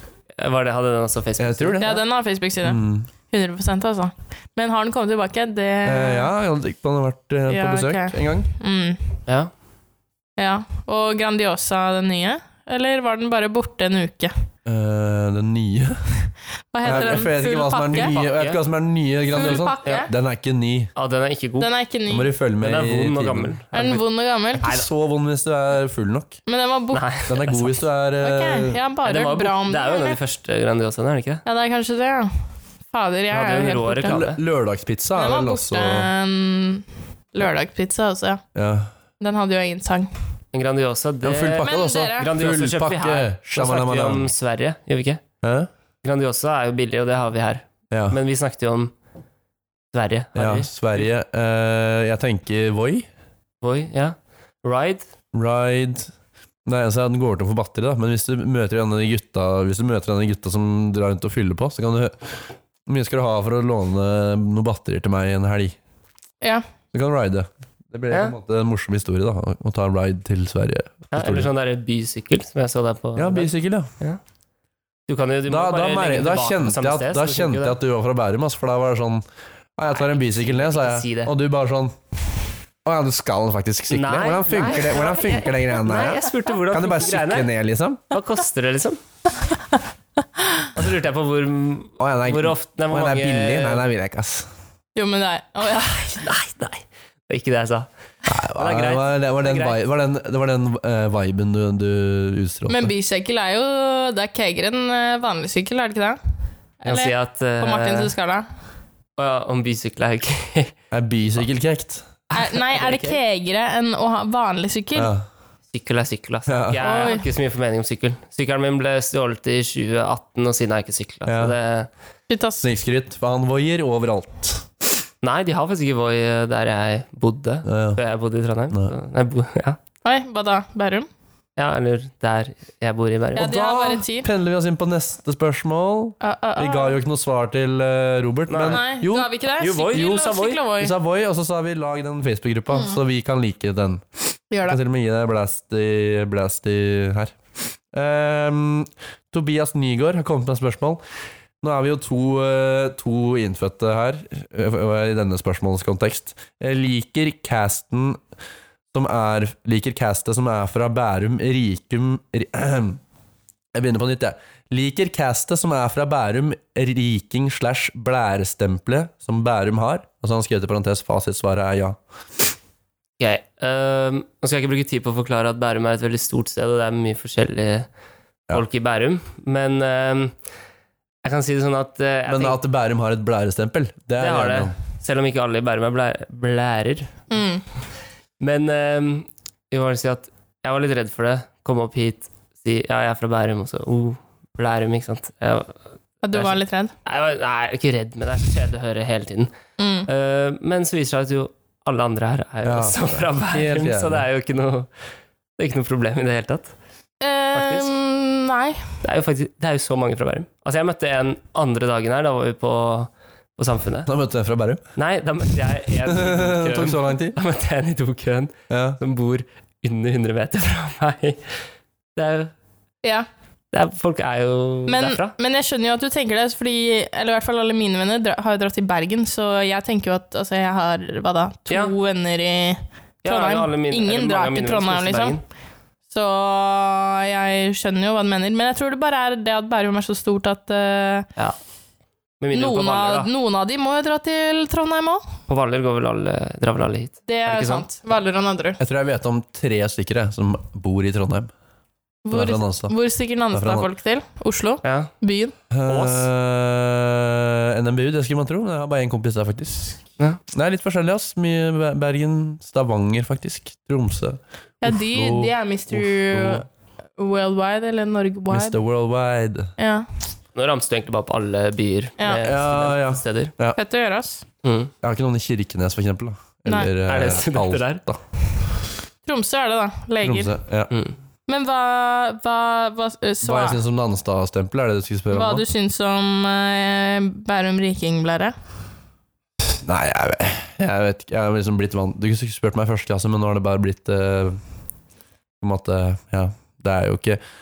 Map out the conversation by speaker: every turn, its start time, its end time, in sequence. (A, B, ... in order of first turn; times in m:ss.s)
0:00.4-0:02.0 A
0:01.4-0:02.0 B
0:01.8-0:06.3 C
0:02.6-0:03.1 B
0:05.8-0:08.5 B
0:07.5-0:09.0 C
0:10.4-0:14.3 C
0:14.6-0:16.0 B
0:16.7-0:18.2 C
0:16.8-0:20.9 B
0:16.9-0:17.2 A
0:17.9-0:18.6 A
0:19.4-0:20.1 C
0:19.4-0:20.1 A
0:21.0-0:21.7 A
0:21.6-0:22.3 C
0:22.1-0:23.6 B
0:22.6-0:24.0 A
0:23.7-0:24.7 C
0:24.6-0:26.4 B
0:26.5-0:27.0 C
0:26.9-0:27.8 A
0:27.3-0:28.8 B
0:28.2-0:30.2 C
0:29.0-0:31.4 A
0:31.4-0:32.3 C
0:32.9-0:34.2 C
0:33.3-0:34.4 A
0:34.0-0:36.1 B
0:35.2-0:38.4 C
0:38.6-0:38.9 B
0:39.2-0:40.1 C
0:40.5-0:45.2 A
0:41.2-0:44.3 B
0:41.6-0:42.3 C
0:45.4-0:45.7 B
0:46.0-0:48.9 A
0:47.9-0:48.2 B
0:49.9-0:51.1 A
0:50.4-0:53.1 B
0:53.6-0:55.0 A
0:55.3-0:56.1 B
0:56.7-1:02.4 B
1:02.9-1:05.8 B
1:06.9-1:11.5 B
1:11.1-1:14.2 A
1:13.2-1:13.9 B
1:15.1-1:17.8 A
1:15.5-1:19.2 B
1:19.8-1:22.0 B
1:19.9-1:21.3 A
1:22.8-1:28.0 B
1:23.9-1:27.5 A
1:28.1-1:29.0 A
1:30.8-1:33.8 A
1:32.0-1:34.5 B
1:35.0-1:36.2 C
1:36.2-1:37.9 A
1:38.3-1:42.9 B
1:38.6-1:39.8 A
1:42.7-1:46.2 C
1:46.8-1:48.5 C
1:46.8-1:48.1 A
1:49.2-1:50.7 A
1:50.9-1:52.1 B
1:52.3-1:55.1 C
1:52.7-1:53.2 A
1:55.0-1:55.2 B
1:55.7-2:01.9 A
1:56.5-1:56.8 B
1:56.8-1:57.2 C
2:01.3-2:01.6 B
2:02.3-2:02.7 C
2:02.6-2:04.7 B
2:05.2-2:09.8 A
2:07.7-2:08.0 B
2:10.0-2:11.1 C
2:11.6-2:13.5 A
2:13.4-2:14.3 C
2:13.4-2:19.3 B
2:16.2-2:17.0 C
2:18.5-2:18.8 A
2:18.7-2:21.0 C
2:19.6-2:20.6 A
2:19.9-2:20.2 B
2:20.8-2:24.0 B
2:24.5-2:24.8 C
2:24.6-2:27.4 B
2:27.9-2:31.0 B
2:31.6-2:38.2 B
2:38.9-2:43.0 B
2:43.7-2:52.0 B
2:53.2-2:57.9 A
2:58.5-3:00.4 A
3:01.2-3:02.6 A
3:02.3-3:04.7 B
3:04.2-3:07.1 A
3:07.3-3:07.6 C
3:08.4-3:15.7 A
3:16.2-3:16.9 C
3:16.3-3:19.5 A
3:19.8-3:20.1 C
3:20.1-3:24.9 A
3:22.6-3:24.2 B
3:25.6-3:26.7 A
3:27.2-3:28.8 C
3:27.5-3:27.9 A
3:29.0-3:34.1 A
3:34.1-3:34.8 B
3:35.0-3:41.4 A
3:36.1-3:37.4 B
3:38.7-3:39.0 B
3:42.2-3:42.5 A
3:43.7-3:45.3 A
3:44.9-3:55.4 C
3:51.7-3:51.9 A
3:53.2-3:55.4 A
3:56.1-4:01.3 C
4:02.4-4:03.3 A
4:02.5-4:05.2 C
4:05.5-4:07.9 A
4:07.3-4:08.8 C
4:08.8-4:11.5 B
4:12.2-4:15.5 C
4:12.3-4:13.0 B
4:13.5-4:13.9 B
4:14.8-4:15.1 A
4:15.7-4:26.6 B
4:15.9-4:16.3 A
4:24.8-4:26.6 C
4:27.2-4:28.8 C
4:28.5-4:29.7 B
4:29.8-4:30.1 C
4:30.6-4:33.5 A
4:32.4-4:33.8 B
4:33.8-4:34.4 C
4:34.6-4:34.9 A
4:35.0-4:38.2 B
4:37.0-4:38.0 A
4:39.3-4:40.5 C
4:40.2-4:40.9 B
4:41.5-4:43.8 C
4:43.4-4:45.6 B
4:45.3-4:48.5 C
4:49.8-4:54.6 B
4:55.6-4:57.4 B